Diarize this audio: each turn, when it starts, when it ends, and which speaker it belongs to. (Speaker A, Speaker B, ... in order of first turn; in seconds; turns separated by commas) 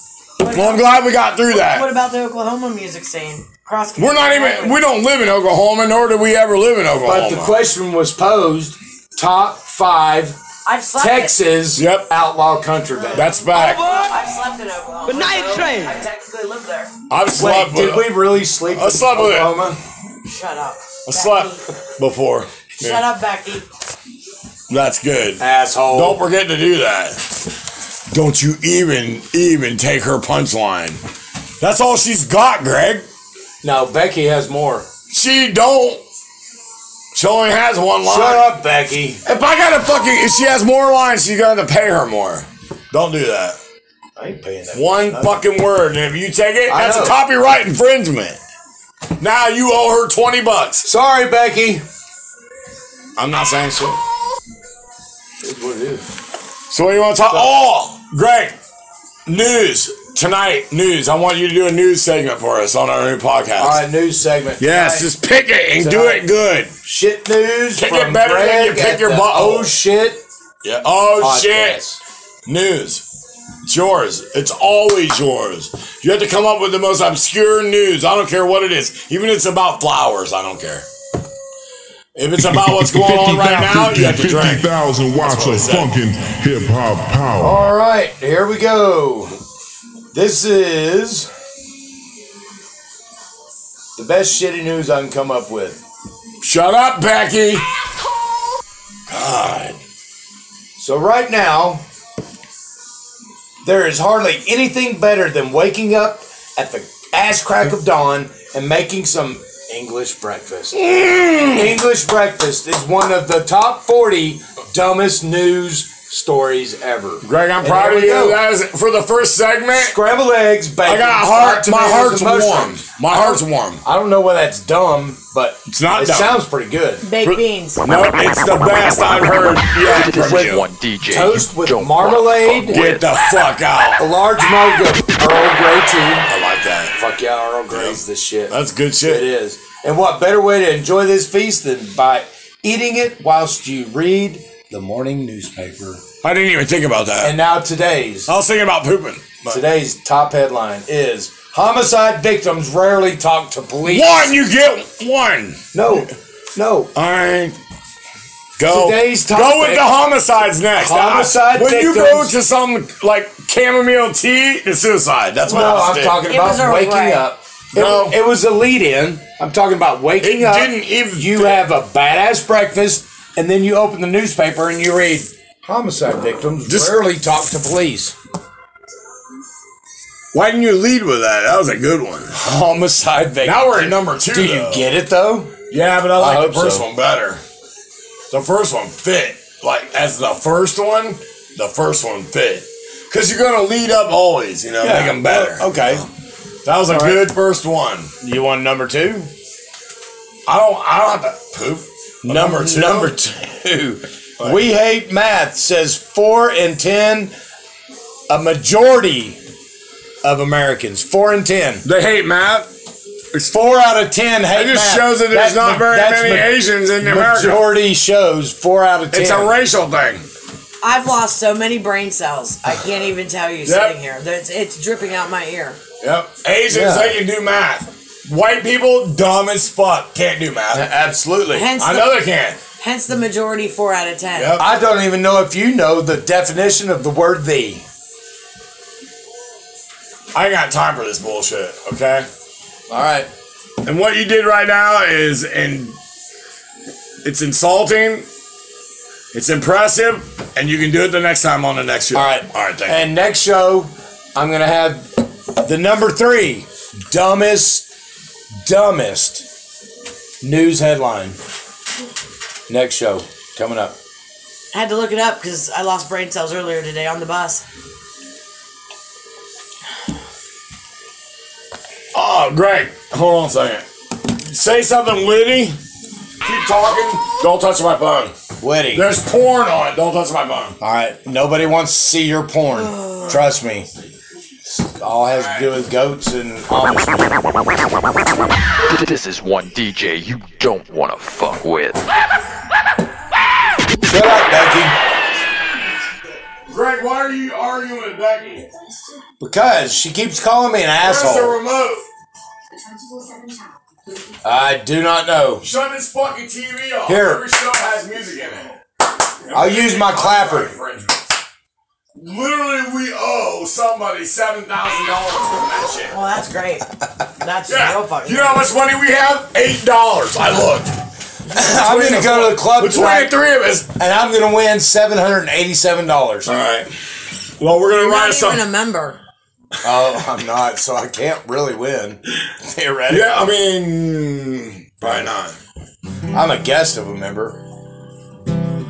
Speaker A: 0.4-4.8, Speaker B: 0.5-1.9, Speaker B: 4.0-7.5, Speaker C: 7.0-10.4, Speaker A: 10.6-11.3, Speaker C: 10.9-13.3, Speaker B: 11.7-12.1, Speaker A: 12.9-16.9, Speaker B: 13.1-13.8, Speaker D: 13.5-14.2, Speaker D: 15.1-16.0, Speaker B: 17.1-19.6, Speaker C: 17.3-19.8, Speaker A: 20.2-21.6, Speaker B: 21.1-23.0, Speaker A: 22.8-23.6, Speaker B: 24.7-27.2, Speaker C: 25.4-26.2, Speaker B: 28.1-31.0, Speaker B: 31.6-33.1, Speaker C: 33.6-34.9, Speaker B: 35.1-36.0, Speaker B: 37.1-38.5, Speaker C: 38.0-39.2, Speaker B: 39.2-43.6, Speaker C: 44.1-45.4, Speaker B: 44.7-48.4, Speaker C: 46.7-47.2, Speaker B: 49.2-50.9, Speaker C: 50.8-51.8, Speaker B: 53.2-54.0, Speaker C: 55.4-56.0, Speaker B: 56.7-58.5, Speaker C: 57.3-57.5, Speaker B: 59.3-63.8, Speaker C: 63.6-65.1, Speaker B: 64.6-66.7, Speaker C: 65.8-66.3, Speaker C: 66.8-70.2, Speaker B: 67.8-69.7, Speaker B: 70.6-71.8, Speaker C: 71.2-72.0, Speaker B: 72.5-73.0, Speaker B: 73.7-80.9, Speaker B: 82.2-85.9, Speaker E: 82.5-87.7, Speaker C: 87.4-89.4, Speaker C: 90.1-91.3, Speaker C: 94.0-95.8, Speaker B: 96.4-97.6, Speaker B: 99.1-99.8, Speaker C: 100.8-101.8, Speaker C: 103.6-118.4, Speaker B: 110.7-111.8, Speaker B: 117.2-120.0, Speaker C: 119.7-127.0, Speaker B: 120.8-123.8, Speaker B: 125.7-126.4, Speaker A: 127.0-127.9, Speaker B: 127.2-130.6, Speaker D: 129.8-133.1, Speaker C: 130.2-132.8, Speaker B: 132.7-134.0, Speaker C: 134.0-136.3, Speaker B: 136.3-136.9, Speaker C: 136.9-146.0, Speaker B: 137.7-139.3, Speaker B: 146.2-147.3, Speaker C: 147.2-148.3, Speaker B: 148.3-149.6, Speaker C: 149.5-154.3, Speaker B: 153.8-155.6, Speaker C: 155.7-156.9, Speaker B: 156.9-157.6, Speaker B: 158.6-166.2, Speaker C: 158.6-159.8, Speaker C: 160.7-162.3, Speaker C: 165.4-178.2, Speaker A: 166.2-167.2, Speaker B: 167.7-168.2, Speaker B: 170.2-171.6, Speaker B: 176.7-177.0, Speaker B: 180.3-182.3, Speaker C: 182.3-185.5, Speaker B: 183.4-184.8, Speaker B: 185.7-187.4, Speaker C: 186.2-186.8, Speaker B: 188.3-196.1, Speaker C: 194.8-196.1, Speaker B: 196.6-198.1, Speaker C: 196.9-197.3, Speaker C: 198.2-199.3, Speaker B: 200.5-203.1, Speaker C: 202.2-207.3, Speaker C: 208.3-209.4, Speaker C: 210.2-211.8, Speaker B: 211.8-212.7, Speaker C: 213.5-219.5, Speaker B: 214.5-217.7, Speaker B: 219.1-220.2, Speaker A: 220.8-225.8, Speaker B: 223.7-223.9, Speaker C: 226.0-227.2, Speaker B: 226.4-230.9, Speaker C: 230.7-231.7, Speaker A: 231.5-232.2, Speaker B: 231.8-232.6, Speaker A: 232.8-234.6, Speaker B: 234.3-234.6, Speaker C: 234.6-237.8, Speaker B: 240.3-242.3, Speaker C: 242.9-243.3, Speaker B: 243.8-245.9, Speaker B: 247.2-248.2, Speaker B: 249.3-253.0, Speaker C: 252.1-255.1, Speaker C: 255.6-257.9, Speaker C: 258.6-259.4, Speaker C: 260.4-261.4, Speaker C: 262.7-263.9, Speaker A: 264.7-267.6, Speaker B: 272.1-273.9, Speaker B: 274.4-275.8, Speaker B: 276.4-278.3, Speaker C: 278.6-279.1, Speaker B: 278.9-280.8, Speaker C: 280.8-283.9, Speaker A: 282.8-283.3, Speaker C: 284.6-287.4, Speaker B: 285.3-285.7, Speaker D: 288.8-292.0, Speaker C: 294.0-295.0, Speaker B: 296.7-298.7, Speaker C: 299.4-301.6, Speaker B: 301.0-302.0, Speaker C: 304.4-305.6, Speaker B: 305.6-308.8, Speaker C: 307.1-307.4, Speaker B: 309.4-311.2, Speaker C: 309.5-310.7, Speaker B: 312.1-316.1, Speaker A: 316.1-318.7, Speaker B: 317.7-320.9, Speaker C: 321.5-323.3, Speaker B: 321.5-323.9, Speaker C: 323.9-326.5, Speaker B: 326.4-326.9, Speaker B: 327.6-328.6, Speaker A: 327.9-329.2, Speaker C: 329.8-333.4, Speaker B: 333.1-335.6, Speaker C: 336.3-337.6